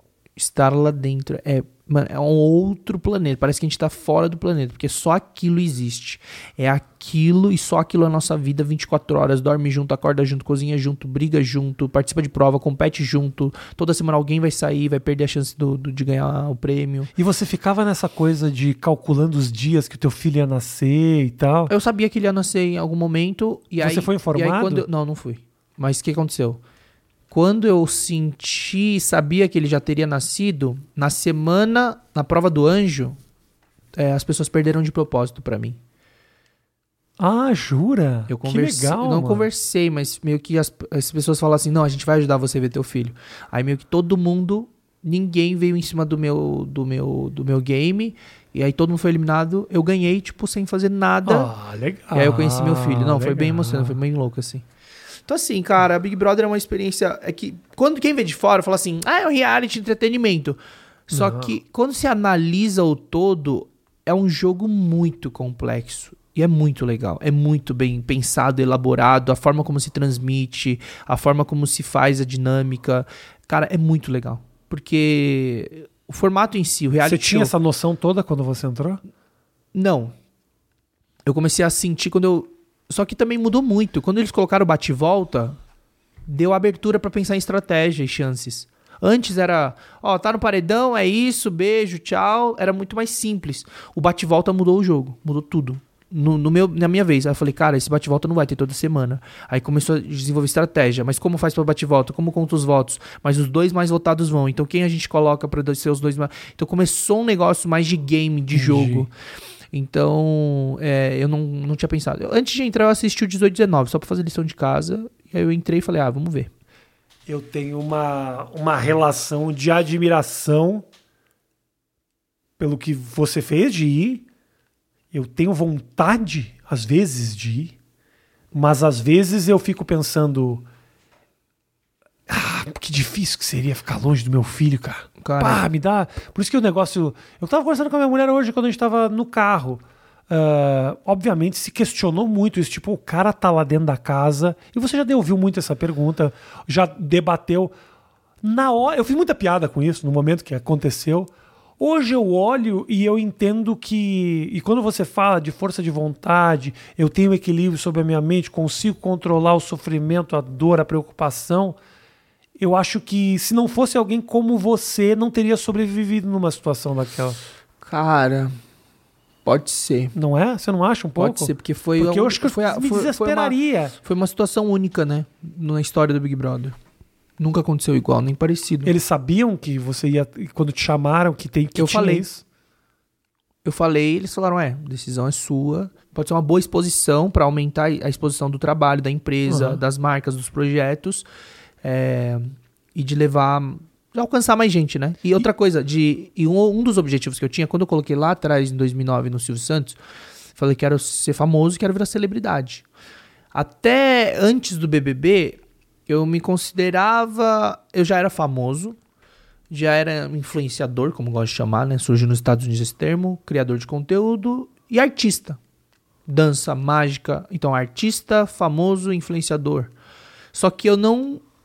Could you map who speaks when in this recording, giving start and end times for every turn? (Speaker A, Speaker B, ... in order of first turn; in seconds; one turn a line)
Speaker A: 0.4-17.1
Speaker B: 17.2-21.7
Speaker A: 21.7-26.6
Speaker B: 23.8-24.9
Speaker A: 27.3-33.2
Speaker A: 34.0-35.8
Speaker B: 37.2-39.5
Speaker A: 38.3-51.5
Speaker B: 51.3-54.0
Speaker A: 52.1-54.6
Speaker A: 55.3-77.5
Speaker B: 61.1-61.5
Speaker B: 77.0-79.0
Speaker A: 79.7-80.1
Speaker A: 81.3-85.6
Speaker A: 86.3-109.1
Speaker B: 108.5-109.1
Speaker A: 109.7-116.5
Speaker B: 117.3-120.9
Speaker B: 122.6-124.3
Speaker B: 125.1-127.8
Speaker B: 128.5-130.6
Speaker B: 132.3-147.7
Speaker A: 135.2-135.6
Speaker B: 148.4-161.8
Speaker B: 162.6-167.4
Speaker A: 167.8-168.6
Speaker A: 169.4-170.1
Speaker B: 170.2-173.9
Speaker A: 171.2-176.8
Speaker A: 177.4-178.9
Speaker B: 178.8-182.4
Speaker A: 181.8-182.2
Speaker A: 183.7-191.2
Speaker B: 189.5-189.8
Speaker A: 191.8-200.0
Speaker A: 200.6-202.8
Speaker A: 203.5-209.0
Speaker A: 209.7-215.6
Speaker A: 216.3-219.9
Speaker A: 220.5-221.4